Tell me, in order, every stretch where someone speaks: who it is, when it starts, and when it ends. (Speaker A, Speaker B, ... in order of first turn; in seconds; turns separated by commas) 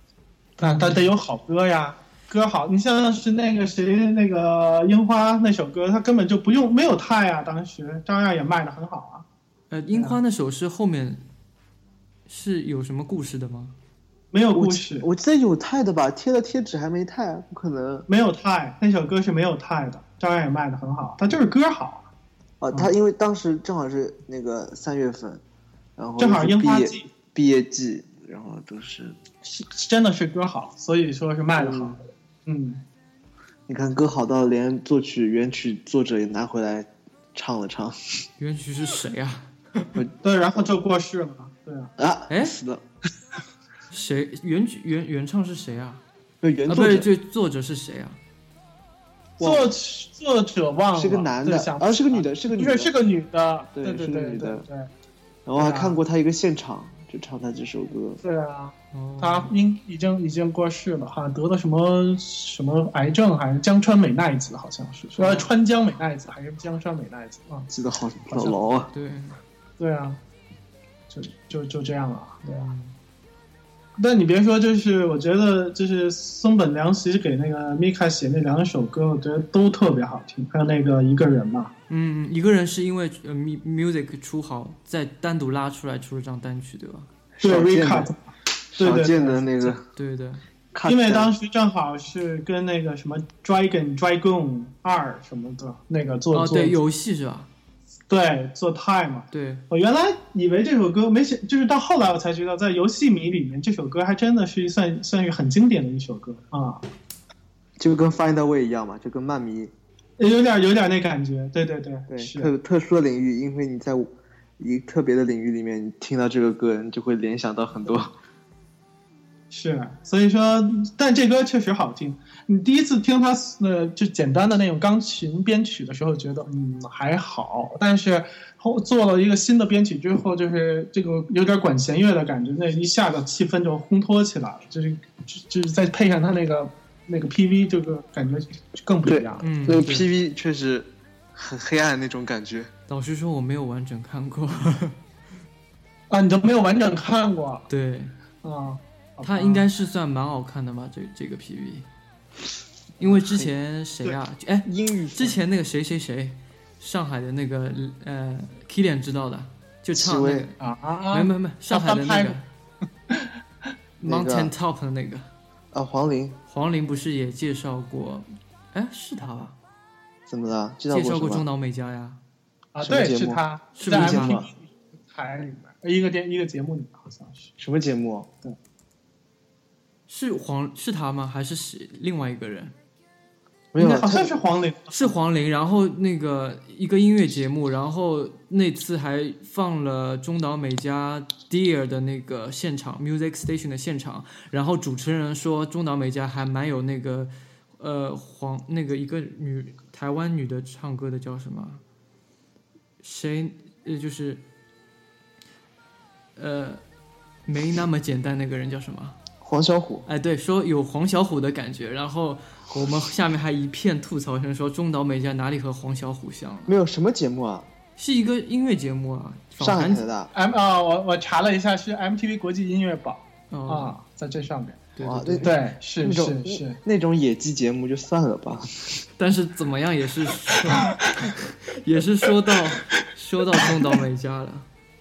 Speaker A: 0.6-9.3, Speaker B: 0.6-1.1, Speaker B: 9.7-11.2, Speaker B: 12.3-13.8, Speaker A: 14.3-15.1, Speaker C: 14.5-18.1, Speaker A: 18.1-22.1, Speaker C: 22.6-25.4, Speaker C: 26.0-29.2, Speaker A: 26.2-27.1, Speaker A: 29.4-32.8, Speaker C: 31.6-32.0, Speaker C: 33.7-38.0, Speaker B: 38.4-39.9, Speaker A: 40.2-41.9, Speaker C: 42.0-42.8, Speaker B: 42.3-42.6, Speaker B: 43.9-46.0, Speaker C: 46.4-47.1, Speaker B: 46.7-48.2, Speaker A: 49.4-54.9, Speaker C: 49.4-49.7, Speaker C: 51.0-52.9, Speaker C: 53.7-54.6, Speaker C: 55.5-58.2, Speaker A: 55.6-56.0, Speaker A: 58.2-67.7, Speaker B: 58.9-59.5, Speaker B: 65.2-65.5, Speaker C: 67.7-68.9, Speaker A: 68.3-68.6, Speaker B: 68.9-69.4, Speaker A: 69.8-70.2, Speaker A: 71.1-72.7, Speaker B: 72.5-73.0, Speaker A: 74.0-81.7, Speaker B: 81.9-87.1, Speaker C: 87.3-88.1, Speaker A: 87.4-88.2, Speaker C: 88.7-89.8, Speaker A: 88.8-89.5, Speaker B: 89.6-90.5, Speaker C: 90.7-91.3, Speaker A: 90.8-96.8, Speaker B: 96.3-97.5, Speaker A: 98.1-106.8, Speaker B: 99.3-99.6, Speaker C: 107.8-109.7, Speaker A: 110.2-112.5, Speaker C: 112.1-118.1, Speaker A: 119.5-139.5, Speaker C: 139.1-142.7, Speaker B: 139.4-140.1, Speaker B: 142.9-145.0, Speaker A: 146.1-147.7, Speaker B: 147.7-148.1, Speaker A: 148.4-149.6, Speaker B: 149.2-151.9, Speaker C: 153.0-153.5, Speaker B: 153.0-160.6, Speaker C: 154.6-155.4, Speaker C: 159.9-160.5, Speaker A: 160.6-162.4, Speaker B: 161.1-162.4, Speaker B: 164.0-165.3, Speaker C: 164.0-164.5, Speaker C: 165.7-166.4, Speaker B: 166.5-169.6, Speaker C: 170.3-171.4, Speaker B: 170.9-172.2, Speaker A: 172.8-177.5, Speaker C: 172.8-174.5, Speaker B: 173.8-174.4, Speaker C: 177.6-178.3, Speaker B: 180.1-182.8, Speaker C: 183.7-184.4, Speaker A: 183.8-185.1, Speaker B: 184.9-201.8, Speaker B: 203.0-204.4, Speaker B: 206.4-206.8, Speaker B: 207.5-209.2, Speaker C: 209.4-210.1, Speaker B: 210.1-216.7, Speaker C: 216.7-217.7, Speaker B: 218.0-220.1, Speaker C: 219.6-220.3, Speaker A: 220.3-224.8, Speaker B: 223.5-224.0, Speaker B: 225.0-225.5, Speaker C: 225.0-229.1, Speaker A: 225.4-226.8, Speaker B: 229.2-234.7